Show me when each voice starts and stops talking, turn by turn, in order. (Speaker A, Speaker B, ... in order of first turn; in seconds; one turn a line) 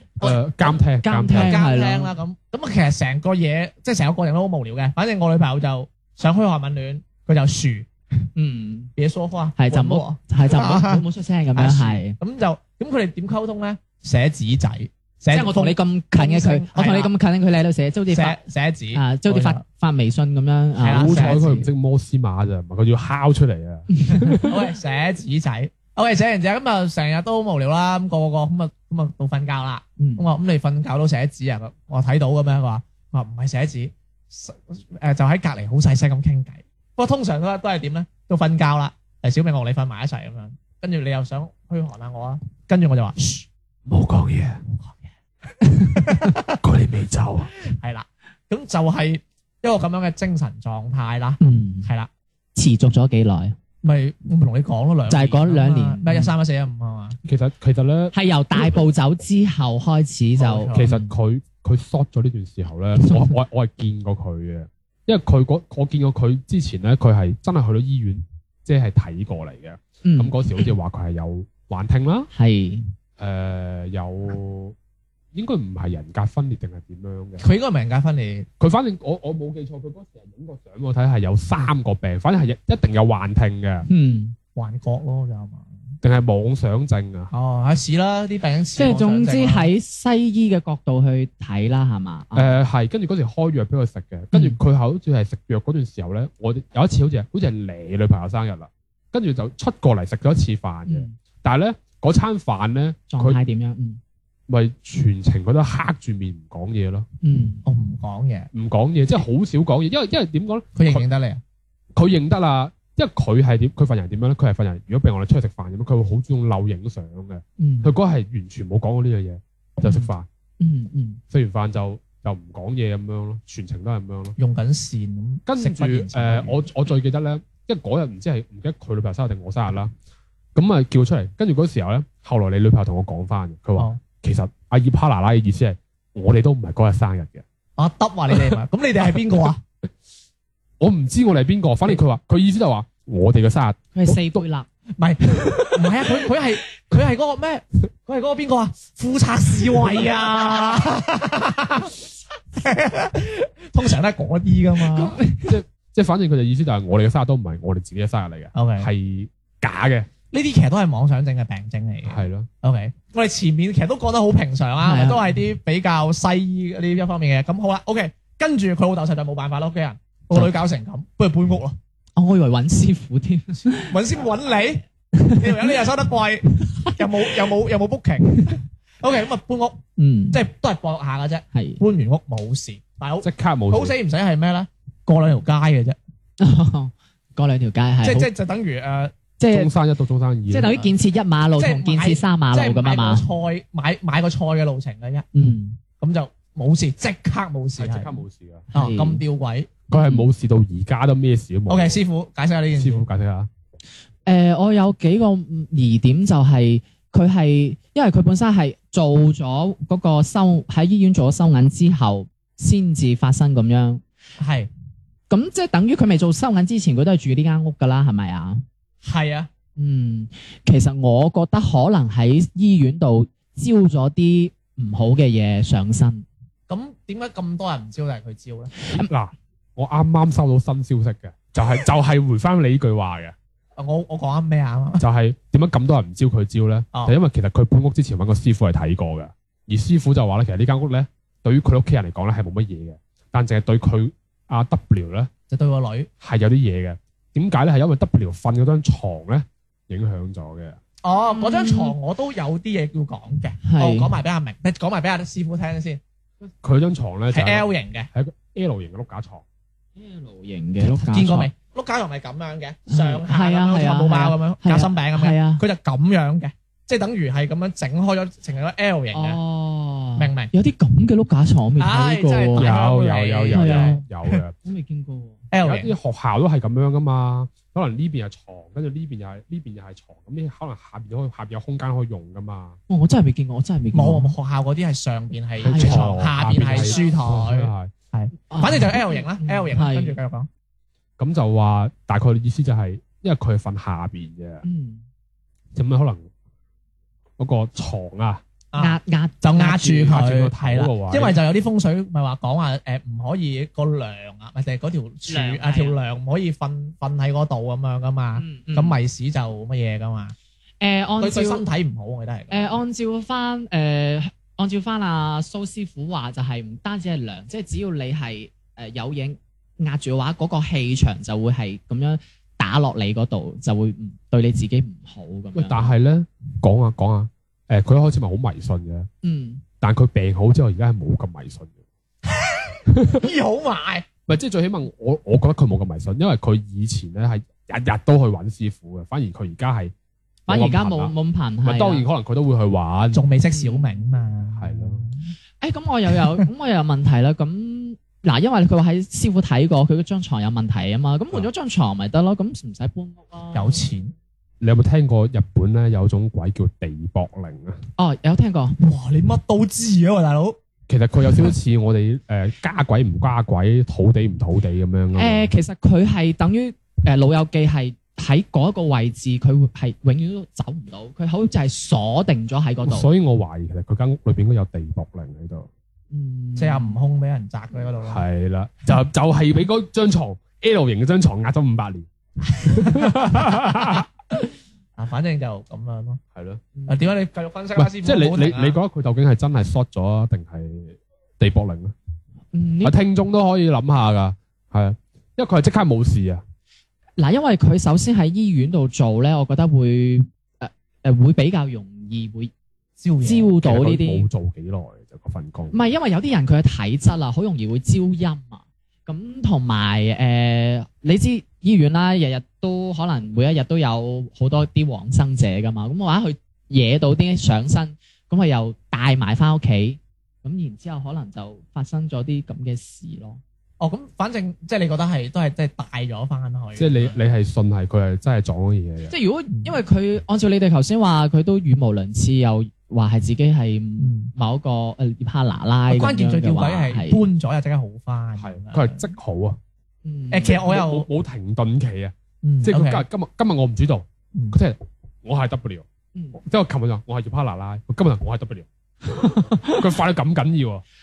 Speaker A: 0.2-1.6
Speaker B: 1.0-2.1
Speaker C: 1.3-7.9
Speaker B: 8.3-8.9
Speaker C: 8.9-17.1
Speaker B: 9.6-12.2
Speaker B: 15.3-18.4
Speaker C: 18.1-19.6
Speaker B: 18.9-21.7
Speaker C: 20.8-21.5
Speaker A: 20.9-24.6
Speaker B: 23.9-24.5
Speaker C: 24.4-43.5
Speaker B: 30.0-30.2
Speaker A: 43.9-44.6
Speaker C: 44.7-45.0
Speaker B: 45.7-46.0
Speaker C: 45.8-46.6
Speaker A: 46.6-47.5
Speaker C: 47.6-52.1
Speaker B: 51.4-51.9
Speaker B: 52.5-53.6
Speaker C: 53.8-57.2
Speaker B: 55.1-56.3
Speaker A: 57.2-58.1
Speaker B: 58.1-61.1
Speaker C: 60.4-60.9
Speaker A: 60.7-72.3
Speaker B: 63.1-63.3
Speaker B: 70.0-70.4
Speaker B: 72.3-72.9
Speaker A: 73.2-74.8
Speaker A: 75.3-77.4
Speaker C: 77.4-78.5
Speaker A: 78.6-83.8
Speaker B: 83.9-84.3
Speaker C: 84.5-85.7
Speaker A: 86.0-87.3
Speaker C: 87.3-89.7
Speaker B: 88.8-92.6
Speaker A: 92.3-103.4
Speaker B: 94.3-94.6
Speaker B: 100.8-101.1
Speaker B: 103.1-104.0
Speaker A: 104.5-107.0
Speaker B: 107.2-107.7
Speaker C: 107.7-108.5
Speaker A: 108.5-111.0
Speaker C: 110.7-111.4
Speaker A: 111.9-120.3
Speaker B: 117.6-117.9
Speaker B: 120.6-121.2
Speaker A: 121.3-124.4
Speaker C: 124.4-126.6
Speaker A: 125.5-129.9
Speaker A: 130.5-137.4
Speaker C: 137.8-139.6
Speaker A: 140.8-144.4
Speaker B: 143.9-144.7
Speaker C: 145.0-152.0
Speaker C: 152.5-155.2
Speaker B: 154.8-155.6
Speaker A: 155.4-160.1
Speaker C: 158.5-158.9
Speaker C: 160.3-171.8
Speaker A: 162.0-162.5
Speaker B: 164.8-165.3
Speaker B: 172.2-174.0
Speaker C: 173.7-179.8
Speaker B: 175.1-175.8
Speaker B: 176.6-177.3
Speaker B: 178.3-178.6
Speaker B: 180.0-180.4
Speaker C: 180.3-186.0
Speaker B: 181.5-181.8
Speaker A: 183.2-183.9
Speaker B: 186.4-188.3
Speaker C: 188.0-189.1
Speaker B: 189.4-189.7
Speaker A: 189.5-190.8
Speaker B: 190.5-193.3
Speaker C: 191.6-195.2
Speaker B: 195.3-195.8
Speaker C: 196.0-198.2
Speaker A: 197.8-198.7
Speaker B: 198.7-199.2
Speaker C: 198.7-199.8
Speaker A: 199.9-202.0
Speaker B: 199.9-200.3
Speaker C: 201.7-203.1
Speaker A: 202.7-203.5
Speaker B: 204.2-214.0
Speaker C: 214.4-214.7
Speaker B: 215.3-218.6
Speaker C: 219.0-219.5
Speaker B: 219.8-226.2
Speaker C: 226.7-228.9
Speaker A: 228.9-233.3
Speaker C: 233.8-235.0
Speaker A: 235.0-245.3
Speaker C: 245.5-246.1
Speaker A: 246.2-250.8
Speaker C: 251.0-256.0
Speaker B: 251.3-251.9
Speaker B: 253.6-254.1
Speaker A: 256.6-259.4
Speaker C: 257.3-258.1
Speaker B: 259.9-261.5
Speaker C: 260.8-269.4
Speaker B: 262.9-265.6
Speaker B: 269.1-272.7
Speaker C: 270.2-270.5
Speaker C: 271.8-274.0
Speaker A: 272.6-274.5
Speaker B: 273.5-274.0
Speaker B: 274.6-275.4
Speaker C: 275.5-275.9
Speaker A: 275.6-282.8
Speaker B: 282.9-284.3
Speaker C: 283.9-290.5
Speaker B: 285.6-287.1
Speaker A: 285.6-287.9
Speaker B: 288.5-290.2
Speaker A: 291.2-294.6
Speaker B: 294.6-295.0
Speaker A: 295.7-296.3
Speaker A: 297.4-298.4
Speaker C: 298.7-310.3
Speaker B: 298.8-300.2
Speaker A: 300.0-301.4
Speaker B: 305.3-305.9
Speaker B: 308.4-309.0
Speaker B: 310.8-311.6
Speaker C: 311.2-312.7
Speaker B: 312.5-325.9
Speaker A: 325.5-329.1
Speaker B: 329.2-329.6
Speaker A: 329.8-331.7
Speaker C: 332.3-334.1
Speaker A: 332.9-333.3
Speaker A: 334.3-339.9
Speaker B: 340.5-342.1
Speaker A: 340.5-343.2
Speaker C: 343.1-345.3
Speaker B: 343.5-344.2
Speaker A: 344.6-345.0
Speaker B: 345.6-353.9
Speaker C: 353.5-354.1
Speaker A: 354.6-357.8
Speaker B: 358.0-358.8
Speaker C: 358.8-360.6
Speaker A: 360.9-365.5
Speaker B: 365.1-373.1
Speaker A: 372.8-375.7
Speaker B: 376.1-377.0
Speaker C: 376.6-378.2
Speaker A: 378.0-382.1
Speaker C: 382.5-383.7
Speaker A: 382.6-384.1
Speaker C: 385.0-386.2
Speaker A: 386.3-386.6
Speaker B: 386.7-387.1
Speaker C: 386.9-388.8
Speaker A: 387.8-391.9
Speaker B: 392.5-392.9
Speaker A: 392.8-396.4
Speaker B: 397.2-402.5
Speaker C: 403.0-403.5
Speaker B: 403.2-404.2
Speaker A: 403.6-405.8
Speaker B: 405.7-423.4
Speaker C: 423.8-427.2
Speaker A: 426.8-429.1
Speaker B: 429.1-437.2
Speaker C: 429.5-429.8
Speaker C: 434.0-434.3
Speaker C: 435.9-439.1
Speaker A: 438.4-439.6
Speaker B: 440.0-440.6
Speaker C: 440.3-441.1
Speaker A: 440.4-445.9
Speaker C: 442.4-443.0
Speaker A: 446.4-448.7
Speaker B: 449.1-449.8
Speaker A: 449.2-450.8